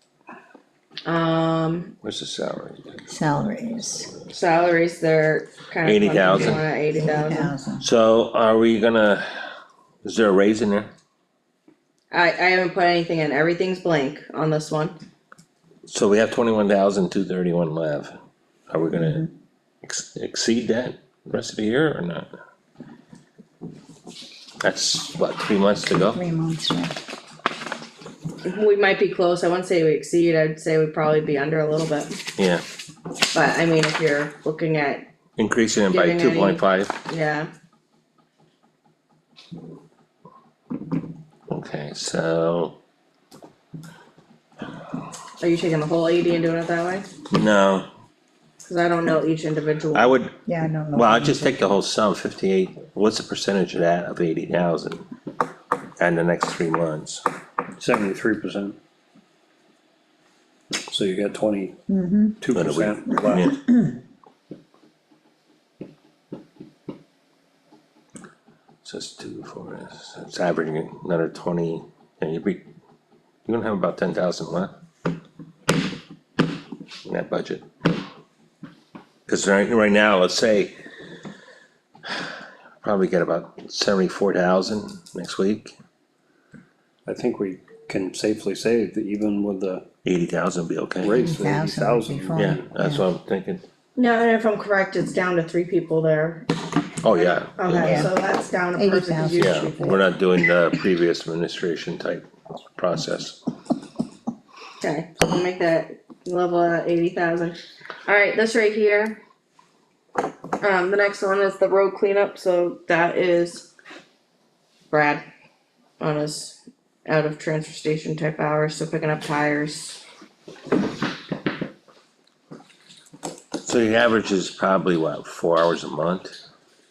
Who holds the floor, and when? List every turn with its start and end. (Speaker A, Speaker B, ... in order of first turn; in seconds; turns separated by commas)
Speaker A: 1.1-1.9, Speaker B: 2.0-3.0, Speaker C: 3.1-4.1, Speaker A: 4.3-7.5, Speaker B: 5.8-6.6, Speaker C: 7.0-7.8, Speaker B: 7.8-9.3, Speaker B: 10.0-10.9, Speaker A: 12.1-15.0, Speaker B: 15.9-18.1, Speaker B: 18.7-19.3, Speaker B: 19.8-22.3, Speaker B: 24.6-26.2, Speaker C: 26.1-26.9, Speaker A: 28.4-32.2, Speaker B: 32.4-32.6, Speaker A: 33.3-35.1, Speaker B: 35.4-37.0, Speaker A: 35.9-37.5, Speaker B: 41.5-42.8, Speaker A: 45.4-47.1, Speaker B: 47.3-47.9, Speaker A: 48.6-50.1, Speaker B: 49.9-50.4, Speaker C: 50.5-51.6, Speaker B: 51.0-55.0, Speaker B: 56.0-57.2, Speaker D: 57.8-58.8, Speaker D: 60.9-61.8, Speaker C: 61.9-62.4, Speaker D: 62.4-63.5, Speaker B: 62.5-63.6, Speaker C: 63.5-64.0, Speaker B: 68.8-72.6, Speaker B: 73.5-74.7, Speaker B: 77.0-77.7, Speaker B: 79.3-80.8, Speaker B: 82.8-85.7, Speaker D: 87.1-89.8, Speaker B: 90.0-91.3, Speaker D: 91.0-92.6, Speaker C: 91.1-93.0, Speaker B: 92.3-93.6, Speaker A: 94.0-96.5, Speaker B: 97.0-98.1, Speaker A: 97.1-99.9, Speaker C: 97.8-98.1, Speaker C: 98.8-100.1, Speaker B: 99.4-103.4, Speaker A: 104.8-109.2, Speaker A: 110.6-113.7, Speaker A: 114.9-115.2, Speaker A: 116.0-120.0, Speaker B: 123.6-126.4